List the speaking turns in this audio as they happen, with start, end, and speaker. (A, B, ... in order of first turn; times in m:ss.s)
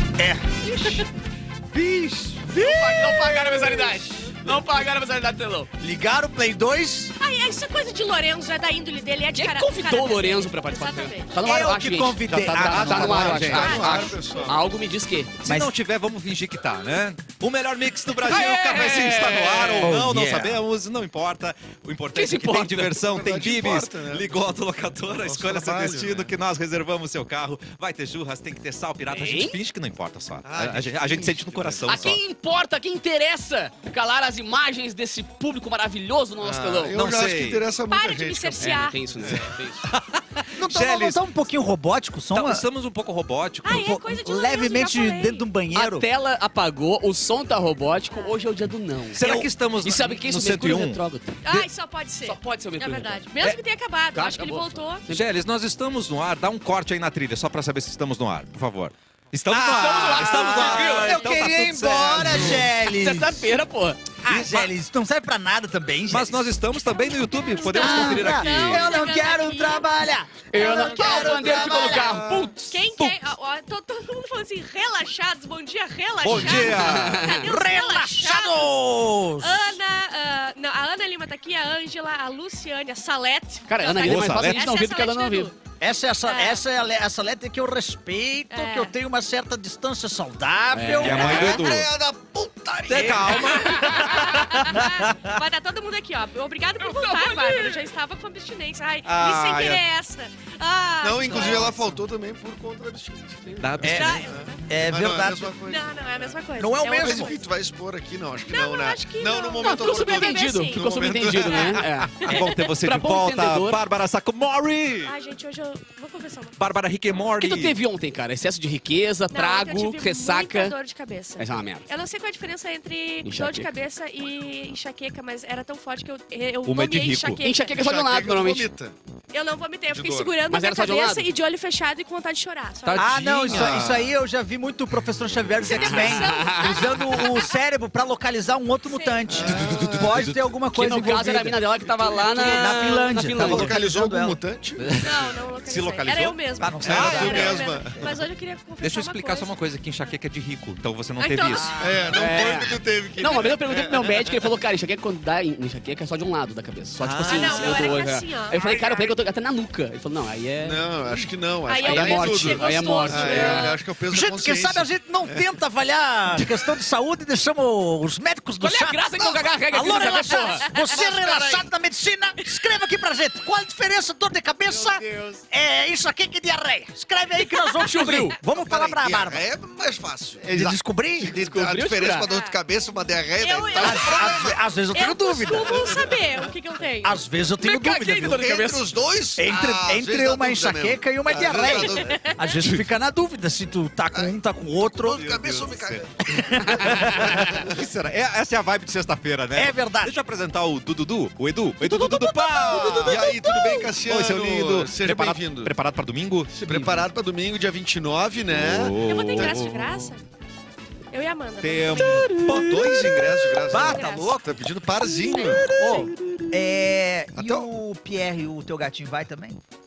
0:00.2-0:01.0 A
0:01.7-0:03.2 A
0:01.9-0:02.2 B
0:02.5-0:05.7 C
0:03.0-0:03.8 D
0:05.8-0:07.1 A
0:07.2-0:11.4 D
0:09.3-0:15.4 C
0:11.4-0:13.8 A
0:12.3-0:14.1 B
0:13.4-0:14.7 E
0:13.6-0:14.2 D
0:15.4-0:32.2 B
0:15.4-0:15.7 A
0:18.2-0:19.9 C
0:19.8-0:20.6 A
0:22.1-0:23.0 C
0:23.0-0:24.6 E
0:25.2-0:26.3 E
0:29.1-0:29.6 C
0:30.4-0:32.2 E
0:31.8-0:37.1 C
0:36.4-0:39.5 E
0:36.9-0:37.6 B
0:37.9-0:39.0 D
0:38.6-0:39.8 C
0:39.8-0:41.2 B
0:40.6-0:42.6 A
0:42.3-0:43.9 B
0:43.6-0:45.5 D
0:43.6-0:46.0 A
0:45.7-0:49.2 C
0:49.1-0:51.0 B
0:49.2-0:49.5 A
0:49.8-0:51.4 C
0:51.4-0:55.0 D
0:52.2-0:53.2 C
0:54.1-0:55.2 C
0:55.1-1:02.6 B
0:59.5-1:03.5 A
0:59.6-1:01.2 C
1:02.8-1:04.0 C
1:04.2-1:06.5 A
1:04.3-1:04.7 B
1:06.1-1:08.9 B
1:07.4-1:12.1 D
1:07.7-1:12.5 A
1:07.8-1:08.3 C
1:10.5-1:12.7 C
1:12.7-1:18.8 D
1:16.2-1:17.3 B
1:16.6-1:17.4 C
1:17.4-1:19.8 A
1:19.4-1:25.5 D
1:23.7-1:25.5 C
1:24.0-1:24.7 B
1:25.8-1:31.7 A
1:26.2-1:26.6 D
1:28.5-1:28.9 D
1:30.7-1:31.6 C
1:31.0-1:31.9 B
1:31.3-1:34.2 E
1:32.8-1:34.1 B
1:33.3-1:41.7 D
1:33.7-1:34.2 C
1:34.2-1:35.3 A
1:36.8-1:37.8 C
1:39.0-1:39.8 B
1:41.0-1:46.3 E
1:41.2-1:41.8 A
1:43.6-1:44.3 B
1:43.8-1:45.5 A
1:43.9-1:44.6 D
1:45.6-1:47.5 D
1:46.6-1:47.3 A
1:46.9-1:52.3 E
1:48.4-1:52.4 D
1:49.6-1:53.8 C
1:52.2-1:55.1 B
1:55.0-1:56.6 D
1:56.6-1:57.8 B
1:57.4-2:00.7 C
1:59.3-2:07.8 D
2:01.4-2:01.9 C
2:03.2-2:03.7 C
2:06.6-2:07.4 B
2:07.4-2:08.7 C
2:07.7-2:08.9 E
2:09.3-2:13.3 D
2:09.9-2:10.4 E
2:10.5-2:11.3 C
2:12.8-2:13.9 B
2:13.0-2:25.0 A
2:13.5-2:14.1 E
2:15.7-2:17.5 D
2:15.7-2:17.0 C
2:18.8-2:19.5 D
2:19.3-2:20.3 E
2:19.5-2:20.4 B
2:20.7-2:23.8 C
2:22.2-2:22.7 D
2:23.4-2:25.0 E
2:25.0-2:30.2 D
2:25.6-2:27.6 B
2:26.6-2:28.2 A
2:26.8-2:28.0 E
2:28.8-2:31.8 B
2:31.2-2:31.8 D
2:31.5-2:32.4 A
2:31.8-2:34.5 E
2:32.1-2:40.8 C
2:37.0-2:38.0 A
2:37.2-2:39.1 D
2:40.6-2:45.4 E
2:41.7-2:43.8 D
2:41.8-2:43.7 C
2:44.1-2:59.4 A
2:48.6-2:50.8 C
2:50.9-2:51.7 E
2:57.8-2:58.4 C
2:58.5-3:04.6 E
3:00.4-3:01.4 A
3:01.4-3:02.3 C
3:02.2-3:02.6 D
3:03.4-3:08.6 D
3:03.8-3:06.0 A
3:05.5-3:06.2 E
3:07.0-3:08.4 A
3:08.0-3:08.8 C
3:08.2-3:12.3 E
3:09.4-3:15.7 A
3:11.7-3:12.6 D
3:14.1-3:17.8 E
3:15.3-3:15.7 B
3:16.2-3:17.6 A
3:16.8-3:23.3 B
3:19.5-3:20.2 A
3:21.8-3:23.9 A
3:23.0-3:25.7 E
3:24.0-3:26.9 B
3:26.6-3:29.7 E
3:28.5-3:30.0 B
3:29.0-3:30.2 D
3:31.1-3:32.4 D
3:31.6-3:32.8 B
3:32.2-3:39.6 A
3:32.3-3:36.0 E
3:33.3-3:34.4 D
3:35.3-3:36.0 D
3:37.3-3:37.7 E